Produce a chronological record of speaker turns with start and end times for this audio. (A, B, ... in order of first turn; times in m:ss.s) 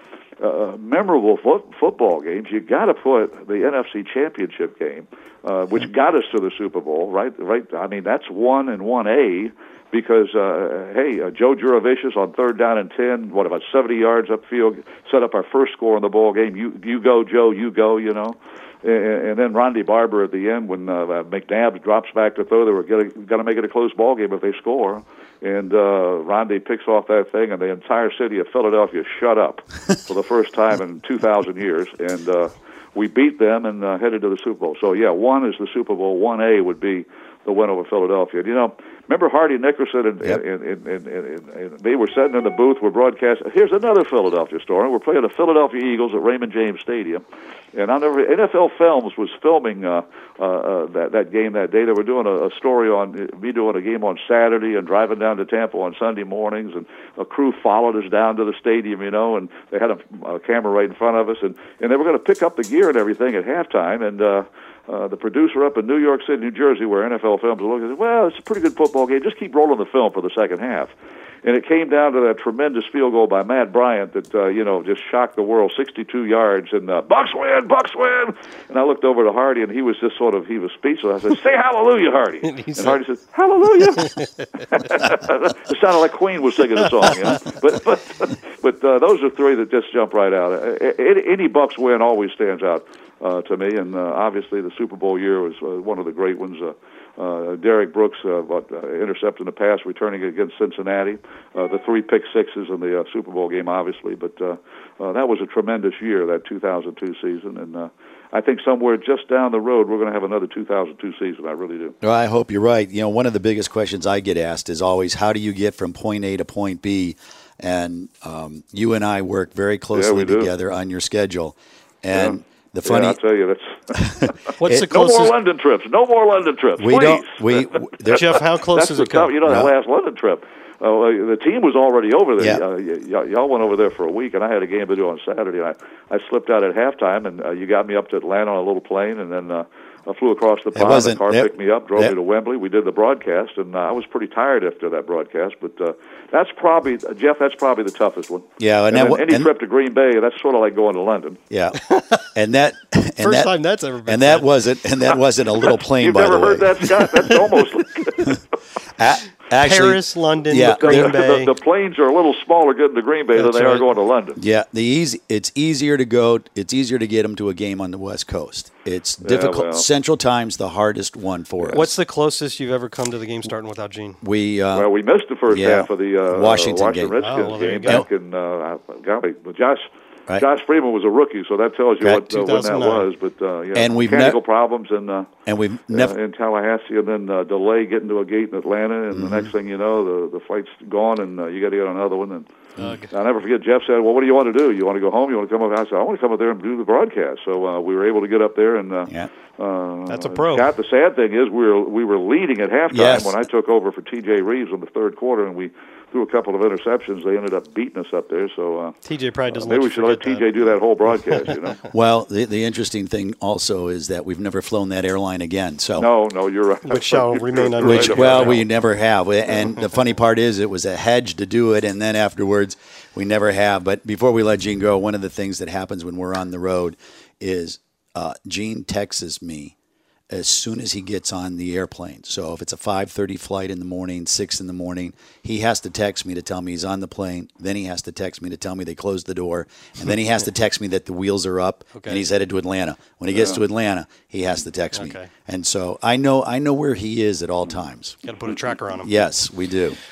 0:00.4-0:47.2 A
0:47.7-1:10.9 A
1:11.4-1:24.1 A
1:22.4-1:23.0 B
1:24.0-1:24.5 B
1:24.7-1:51.9 A
1:52.0-2:03.2 C
1:59.9-2:00.5 A
2:02.1-2:31.4 A
2:03.9-2:04.8 C
2:04.6-2:05.3 B
2:06.8-2:08.4 C
2:08.1-2:09.4 B
2:09.4-2:09.7 C
2:20.7-2:22.1 C
2:28.6-2:29.5 C
2:31.5-2:33.5 C
2:31.9-2:32.2 B
2:33.2-2:34.5 B
2:34.0-2:37.0 C
2:35.9-2:38.4 A
2:38.9-2:41.2 C
2:39.6-2:41.5 B
2:40.7-2:44.4 A
2:43.3-2:43.9 B
2:44.4-2:51.9 C
2:49.2-2:49.8 A
2:51.7-2:54.2 B
2:54.2-2:54.9 C
2:54.7-3:05.3 A
2:55.5-2:57.1 C
2:57.2-2:58.0 B
3:02.0-3:02.3 C
3:02.3-3:03.1 B
3:03.7-3:04.4 C
3:05.4-3:06.1 C
3:05.9-3:12.5 A
3:09.1-3:09.5 C
3:12.8-3:13.1 B
3:13.1-3:29.0 A
3:20.1-3:20.7 B
3:22.9-3:23.4 C
3:29.0-3:30.5 B
3:29.5-3:31.8 A
3:31.9-3:36.1 C
3:36.0-3:38.6 A
3:36.8-3:38.6 B
3:37.8-3:49.7 C
3:50.3-4:08.2 C
4:01.9-4:02.2 B
4:04.9-4:05.3 B
4:08.2-4:09.1 B
4:09.0-4:10.0 C